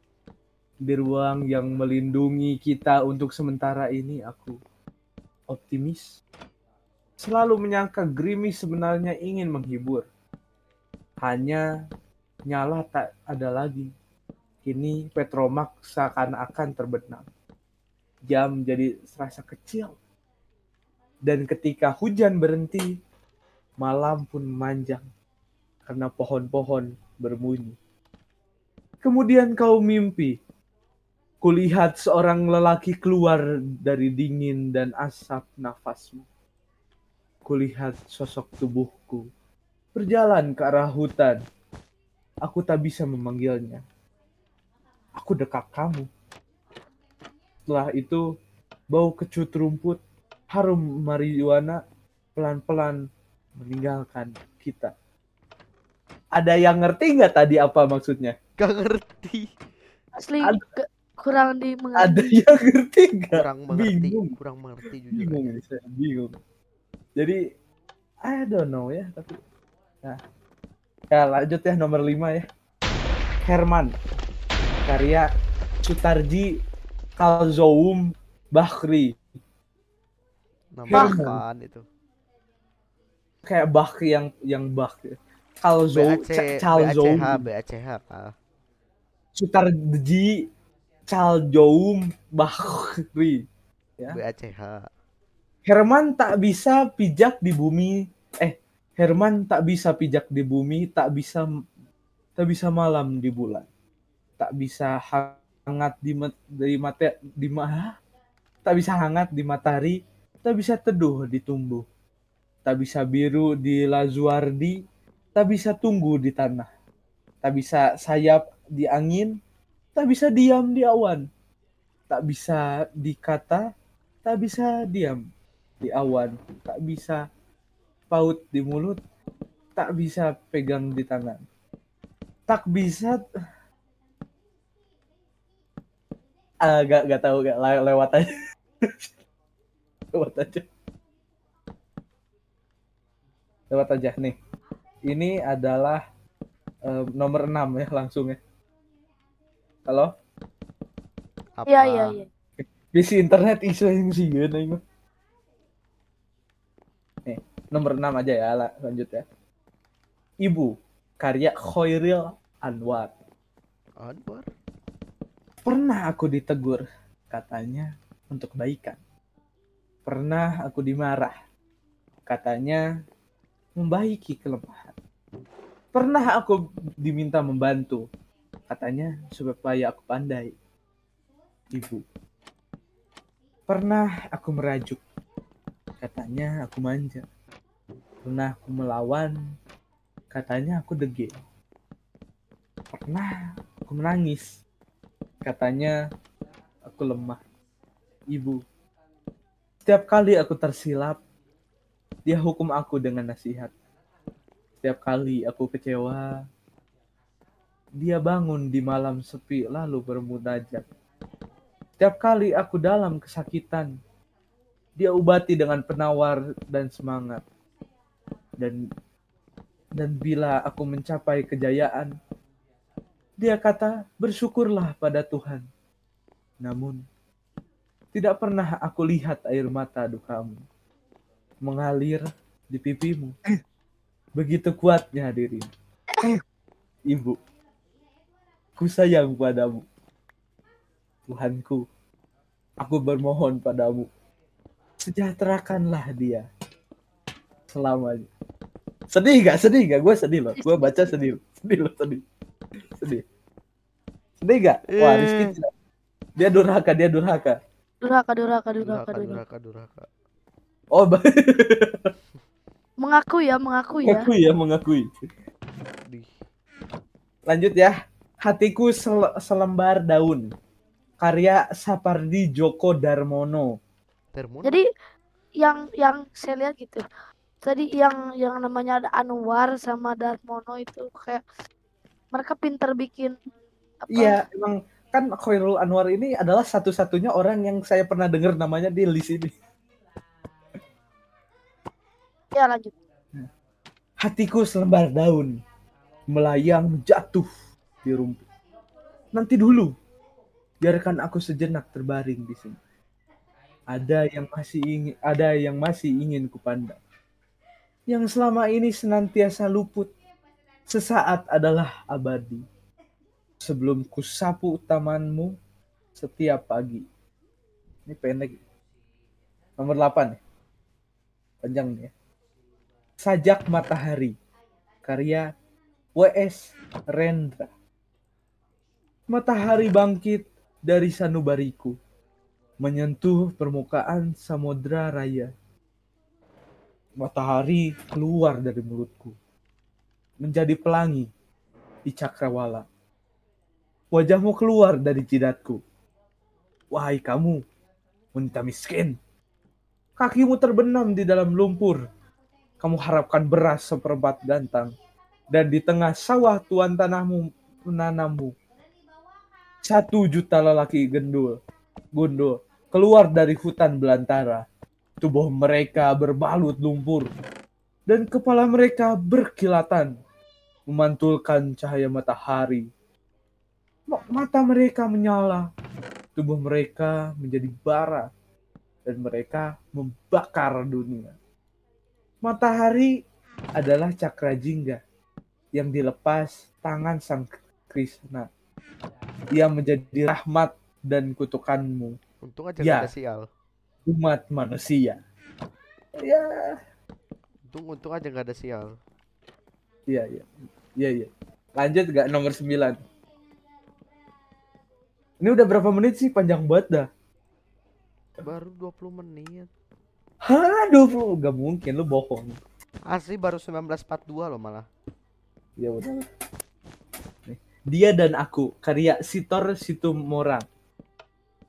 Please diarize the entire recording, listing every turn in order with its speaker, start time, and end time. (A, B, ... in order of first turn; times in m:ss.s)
0:00.8-0:04.6 A
0:05.5-0:06.1 A
0:07.2-0:10.0 A
0:11.2-0:11.6 A
0:12.5-0:13.9 A
0:14.6-0:17.3 A
0:18.2-0:20.0 A
0:21.2-0:22.9 A
0:23.8-0:25.0 A
0:25.8-0:27.8 A
0:29.0-0:30.3 A
0:31.4-0:36.2 A
0:37.4-0:39.2 A
0:39.9-0:41.4 A
0:42.4-0:43.8 A
0:45.2-0:46.1 A
0:47.7-0:48.2 A
0:48.9-0:50.0 A
0:50.5-0:51.8 A
0:52.4-0:53.0 A
0:53.6-0:54.9 A
0:56.3-0:58.4 A
0:58.6-0:59.5 B
1:00.1-1:02.4 C
1:02.0-1:04.3 A
1:03.3-1:05.6 B
1:05.1-1:06.4 A
1:08.2-1:09.4 A
1:11.1-1:12.4 A
1:13.4-1:13.9 A
1:14.8-1:15.3 A
1:15.8-1:16.5 A
1:17.2-1:19.2 A
1:20.7-1:21.8 B
1:20.9-1:21.4 A
1:23.4-1:27.4 A
1:25.9-1:28.3 B
1:29.3-1:30.4 A
1:31.1-1:33.4 A
1:34.1-1:34.9 B
1:35.6-1:41.4 A
1:42.4-1:43.7 A
1:44.4-1:48.0 A
1:48.6-1:51.8 A
1:52.6-1:54.8 A
1:55.3-1:56.7 A
1:57.4-1:59.4 A
2:00.0-2:01.2 A
2:02.1-2:03.7 A
2:04.2-2:05.2 A
2:05.8-2:07.2 A
2:08.1-2:09.0 A
2:09.8-2:11.4 A
2:12.5-2:13.2 A
2:16.6-2:18.3 A
2:18.8-2:19.1 A
2:20.1-2:20.7 A
2:23.7-2:24.3 A
2:25.0-2:26.0 A
2:26.8-2:28.4 A
2:31.6-2:32.2 B
2:31.7-2:32.3 C
2:32.6-2:34.8 A
2:37.2-2:39.2 A
2:40.4-2:43.1 A
2:44.0-2:44.5 B
2:45.6-2:49.0 A
2:50.0-2:51.3 A
2:52.3-2:52.8 A
2:53.8-2:54.9 A
2:55.9-2:58.0 A
2:58.7-3:00.6 A
3:01.7-3:02.0 A
3:03.7-3:05.0 A
3:06.0-3:07.2 A
3:08.2-3:09.5 A
3:10.3-3:11.4 A
3:12.9-3:14.6 A
3:15.4-3:16.0 A
3:16.8-3:17.4 A
3:18.3-3:18.6 A
3:19.8-3:21.2 A
3:22.2-3:23.7 A
3:24.8-3:26.3 A
3:28.0-3:30.8 A
3:32.0-3:33.9 A
3:35.0-3:37.4 A
3:38.6-3:38.8 A
3:40.0-3:42.1 A
3:43.4-3:45.6 A
3:46.6-3:47.0 A
3:48.1-3:50.6 A
3:51.6-3:53.4 A
3:54.4-3:55.7 A
3:57.1-3:57.4 A
3:58.8-3:59.8 A
4:01.3-4:01.8 A
4:02.8-4:04.1 A
4:05.0-4:06.4 A
4:07.7-4:08.3 A
4:09.1-4:12.2 A
4:10.6-4:11.2 C
4:13.0-4:13.2 A
4:14.4-4:15.7 A
4:14.9-4:15.5 B
4:16.4-4:17.6 A
4:18.0-4:19.4 C
4:18.8-4:20.1 B
4:20.9-4:22.1 A
4:23.0-4:24.3 C
4:24.0-4:25.1 A
4:27.5-4:30.5 A
4:31.2-4:33.7 A
4:34.3-4:34.8 B
4:35.6-4:37.0 C
4:37.6-4:41.4 C
4:42.3-4:43.4 C
4:44.0-4:44.4 C
4:44.1-4:49.5 A
4:52.5-4:52.9 C
4:54.2-4:55.5 A
4:56.3-4:57.5 A
4:58.0-4:58.5 A
4:59.3-4:59.9 A
5:00.8-5:02.8 A
5:03.9-5:07.0 A
5:08.1-5:10.1 A
5:10.9-5:12.6 A
5:13.6-5:15.6 A
5:16.1-5:17.0 A
5:18.0-5:18.6 A
5:19.8-5:20.4 A
5:21.6-5:22.1 A
5:23.2-5:24.4 A
5:25.0-5:25.4 A
5:26.2-5:27.7 A
5:29.3-5:31.9 A
5:32.8-5:35.5 A
5:37.2-5:39.4 A
5:40.4-5:41.3 A
5:42.0-5:42.9 A
5:44.1-5:45.8 A
5:46.9-5:47.6 A
5:48.3-5:49.2 A
5:50.2-5:52.0 A
5:52.8-5:54.9 A
5:55.5-5:58.5 A
5:59.8-6:01.6 A
6:02.2-6:04.6 A
6:05.2-6:07.3 A
6:08.1-6:10.1 A
6:10.9-6:12.9 A
6:14.1-6:15.7 A
6:16.4-6:18.3 A
6:19.0-6:21.4 A
6:22.4-6:23.1 A
6:23.8-6:25.0 A
6:25.7-6:28.5 A
6:29.5-6:32.2 A
6:32.4-6:33.5 B
6:32.8-6:33.1 A
6:34.0-6:35.2 A
6:36.2-6:36.7 A
6:37.7-6:38.9 B
6:40.1-6:43.0 A
6:45.4-6:47.1 A
6:48.4-6:49.7 B
6:50.4-6:52.6 A
6:53.1-6:54.9 B
6:55.8-6:56.2 A
6:57.4-7:00.6 A